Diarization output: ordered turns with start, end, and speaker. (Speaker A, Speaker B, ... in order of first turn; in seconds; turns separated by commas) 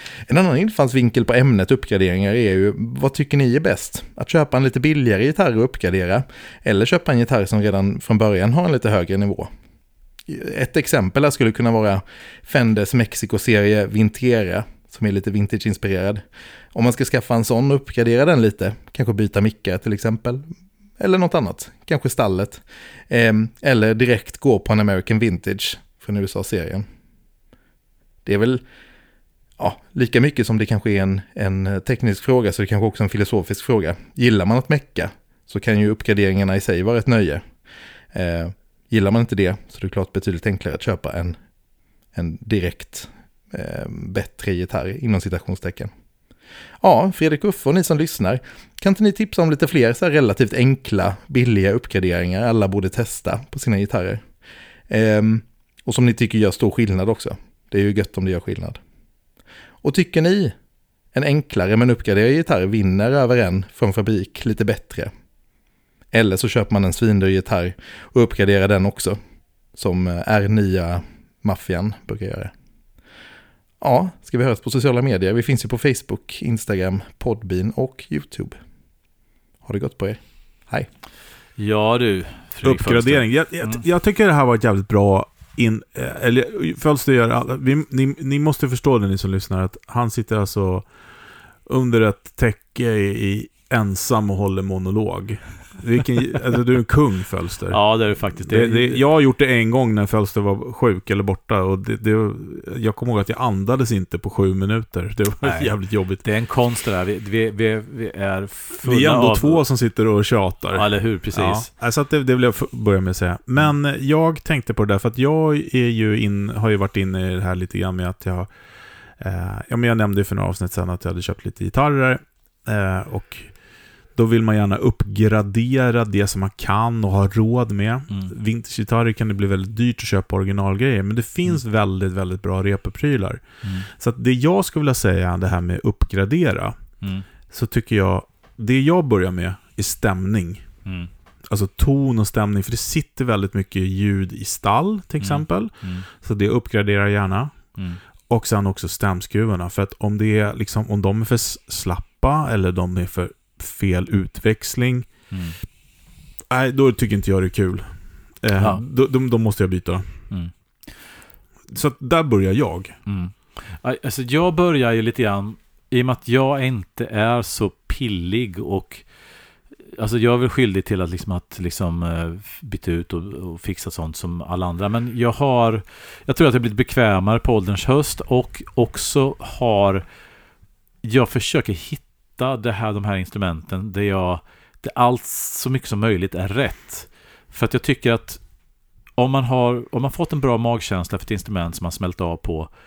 Speaker A: 0.3-9.5, Speaker A: 10.3-16.2, Speaker A: 16.7-20.5, Speaker A: 21.0-26.8, Speaker A: 28.2-28.6, Speaker A: 29.6-37.4, Speaker A: 38.1-41.4, Speaker A: 42.1-45.9, Speaker A: 46.8-54.2, Speaker A: 54.9-58.8, Speaker A: 59.8-60.5, Speaker A: 61.1-65.1, Speaker A: 66.1-69.2, Speaker A: 69.7-72.5, Speaker A: 73.8-78.6, Speaker A: 79.6-80.9, Speaker B: 81.6-83.8, Speaker C: 82.6-90.8, Speaker C: 91.7-97.8, Speaker B: 97.7-99.0, Speaker C: 98.4-106.2, Speaker B: 105.4-109.6, Speaker C: 108.8-118.5, Speaker B: 110.7-111.7, Speaker C: 119.2-123.5, Speaker C: 124.1-136.8, Speaker B: 133.6-133.9, Speaker B: 137.0-137.2, Speaker C: 137.5-140.7, Speaker B: 140.8-141.1, Speaker C: 141.5-147.6, Speaker B: 145.2-146.1, Speaker B: 147.8-148.0, Speaker C: 148.3-155.1, Speaker B: 155.3-155.6, Speaker C: 156.5-160.1, Speaker C: 161.7-163.0, Speaker B: 163.1-169.1, Speaker B: 169.9-180.0, Speaker B: 181.0-188.4, Speaker B: 189.2-192.7